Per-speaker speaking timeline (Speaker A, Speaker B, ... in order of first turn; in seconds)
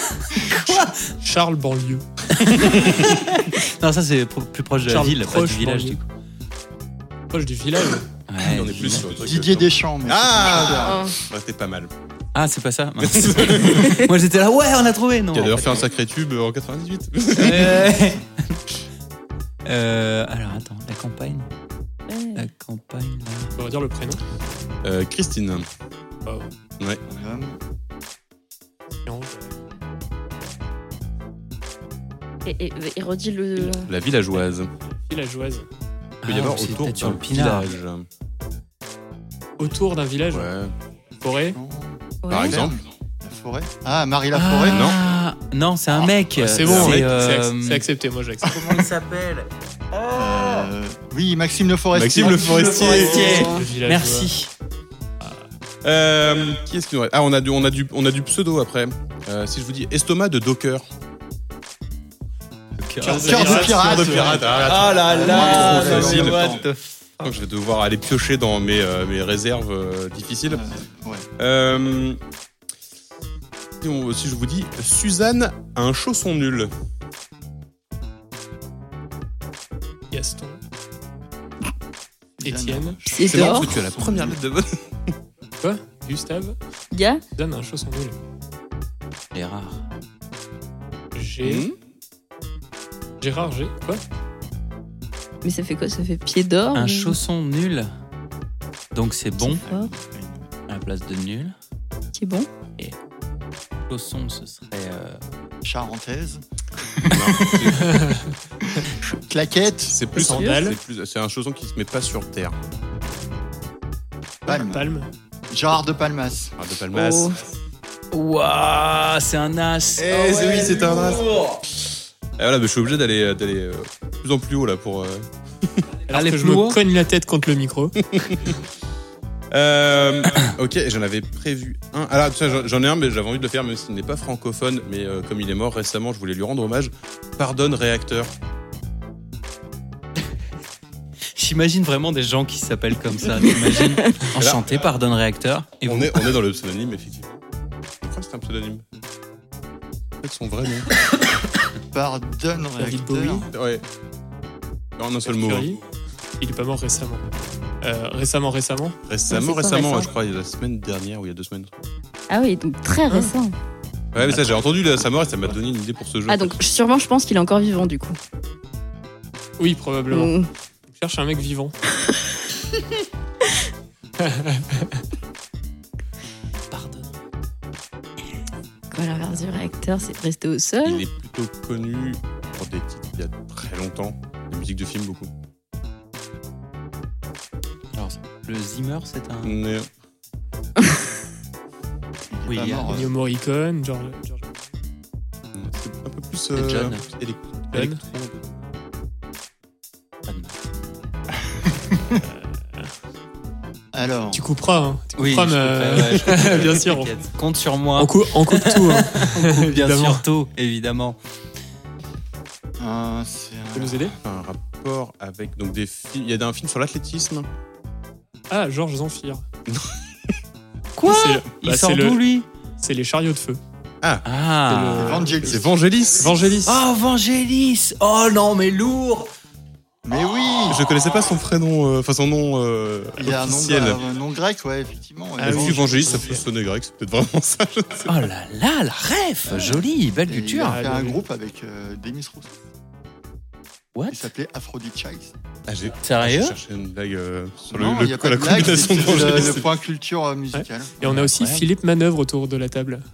Speaker A: 0.4-0.9, 2.3-6.0, 8.3-9.1, 12.3-15.8, 17.3-18.6, 19.6-21.5, 22.3-23.6, 36.2-37.7, 44.3-47.9, 48.4-49.5, 52.1-54.5, 62.8-63.7, 64.6-67.2, 89.3-89.8, 96.7-97.9, 98.9-99.6, 100.7-101.5, 103.9-105.2, 118.1-121.2, 126.1-126.8, 141.3-146.3, 187.9-189.6, 192.5-193.0, 196.5-197.0, 200.3-200.7, 205.2-211.2, 220.9-222.4, 224.2-225.2, 226.6-229.3, 238.1-240.8, 243.9-244.3, 246.0-246.6, 251.0-251.7
Speaker B: 1.2-2.0, 4.9-6.0, 7.3-8.1, 23.6-24.2, 26.2-26.5, 29.1-29.5, 35.1-35.6, 39.6-40.5, 41.2-41.6, 46.4-48.6, 53.4-54.3, 55.2-55.5, 63.0-64.8, 80.1-80.6, 82.4-83.0, 85.6-86.6, 87.3-88.2, 91.1-91.7, 93.2-94.0, 107.9-108.2, 110.1-110.8, 114.5-115.1, 126.1-128.1, 152.8-153.5, 155.2-155.8, 156.4-157.2, 157.8-159.0, 164.3-164.5, 169.6-170.3, 170.9-171.7, 174.2-174.9, 192.9-194.4, 197.7-198.0, 202.1-202.9, 204.3-207.1, 208.0-210.2, 213.7-214.2, 218.5-219.4, 221.0-222.3, 222.8-223.6, 224.7-225.6, 226.2-226.8, 235.4-236.4, 240.6-241.2, 250.5-253.0
Speaker C: 8.4-11.9, 13.0-14.0, 15.3-17.9, 24.8-25.6, 33.8-34.7, 36.2-38.1, 40.3-40.7, 42.3-42.8, 44.7-45.0, 46.6-47.1, 51.9-53.4, 55.8-60.9, 63.3-66.6, 67.2-70.6, 71.4-72.2, 73.8-76.7, 83.3-85.1, 91.4-91.8, 107.1-108.0, 109.9-112.5, 116.6-117.4, 120.0-121.6, 122.4-125.9, 128.2-128.5, 129.5-138.3, 144.4-144.9, 145.8-147.4, 148.0-148.8, 150.2-150.9, 153.5-153.8, 155.0-155.7, 159.1-161.8, 164.1-166.6, 180.8-185.3, 189.4-189.9, 195.5-198.5, 214.2-217.5, 219.7-220.0, 225.4-226.3, 230.7-234.0, 235.4-238.2, 245.7-249.7
Speaker D: 8.9-11.0, 27.1-27.6, 41.5-44.9, 50.1-53.0, 63.1-66.6, 70.5-71.3, 82.4-84.4, 99.5-100.5, 105.6-106.4, 106.9-107.8, 108.7-110.0, 114.4-115.0, 115.5-116.5, 151.9-153.5, 192.3-193.2, 203.9-204.4, 212.8-214.2, 224.9-225.7, 230.0-230.9, 233.2-236.3, 240.3-242.6, 244.1-245.3, 247.7-250.9
Speaker E: 10.8-11.2, 22.1-22.5, 32.4-33.9, 42.2-42.6, 52.9-53.6, 83.1-83.7, 86.9-87.2, 95.4-97.2, 99.4-99.9, 102.1-102.5, 110.2-110.6, 116.9-117.4, 159.3-160.1, 162.3-163.5, 166.3-168.2, 170.1-170.5, 178.9-181.1